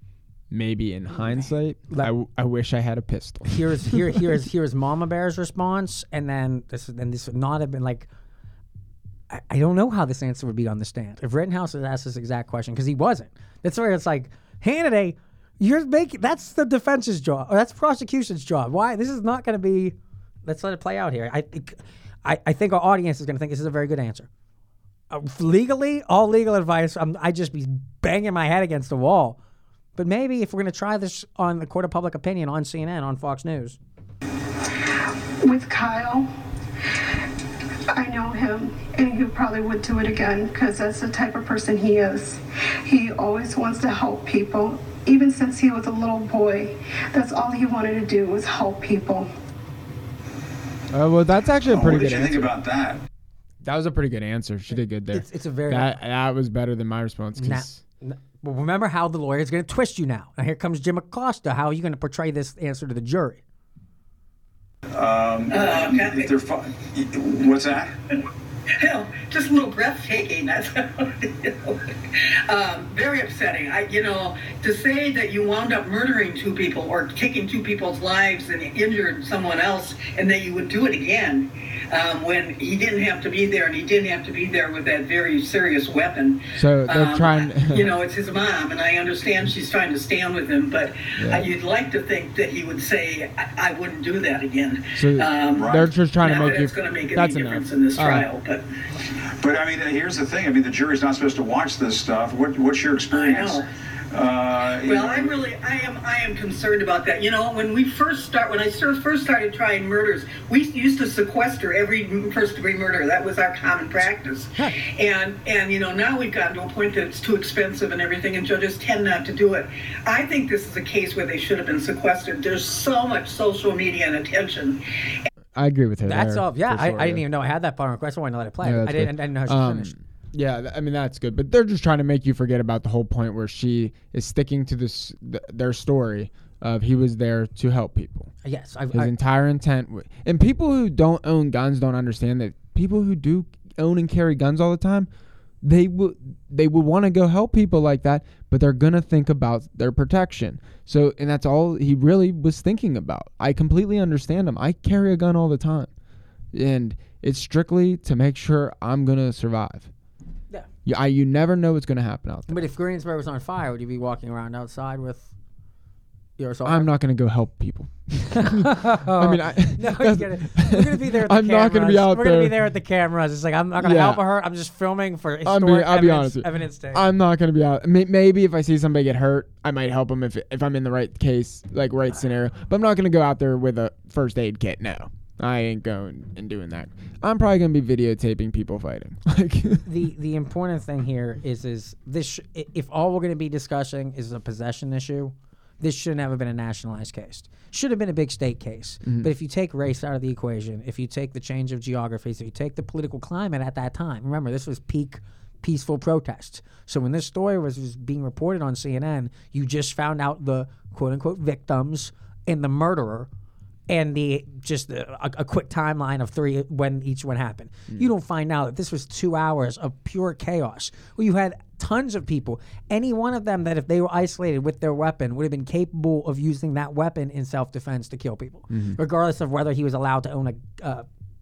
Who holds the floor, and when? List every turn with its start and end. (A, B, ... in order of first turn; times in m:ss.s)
0:00.5-0:04.3 A
0:01.1-0:02.1 B
0:03.5-0:08.1 B
0:09.3-0:24.3 B
0:25.1-0:29.4 B
0:30.0-0:33.8 B
0:35.4-0:36.3 C
0:37.9-0:49.3 C
0:50.9-0:52.5 A
0:51.6-0:53.0 D
0:53.6-0:57.8 A
0:55.1-0:56.0 B
0:57.4-1:03.4 B
1:04.9-1:08.0 D
1:05.5-1:06.3 E
1:08.8-1:38.6 E
1:26.5-1:28.0 A
1:31.2-1:31.5 A
1:34.9-1:38.3 A
1:35.5-1:35.9 D
1:39.2-1:45.3 D
1:43.1-1:43.6 E
1:44.8-2:04.8 E
2:05.5-2:07.2 A
2:06.0-2:09.9 B
2:08.6-2:18.3 A
2:18.4-2:19.1 B
2:18.9-2:25.1 A
2:25.6-2:35.9 A
2:36.5-2:39.9 A
2:40.8-2:42.6 A
2:42.5-2:45.3 B
2:46.4-2:46.9 B
2:46.6-2:52.6 A
2:48.3-2:57.0 B
2:53.8-2:54.2 A
2:55.4-3:09.9 A
3:09.8-3:33.3 B
3:33.9-3:51.1 B
3:48.7-3:49.0 A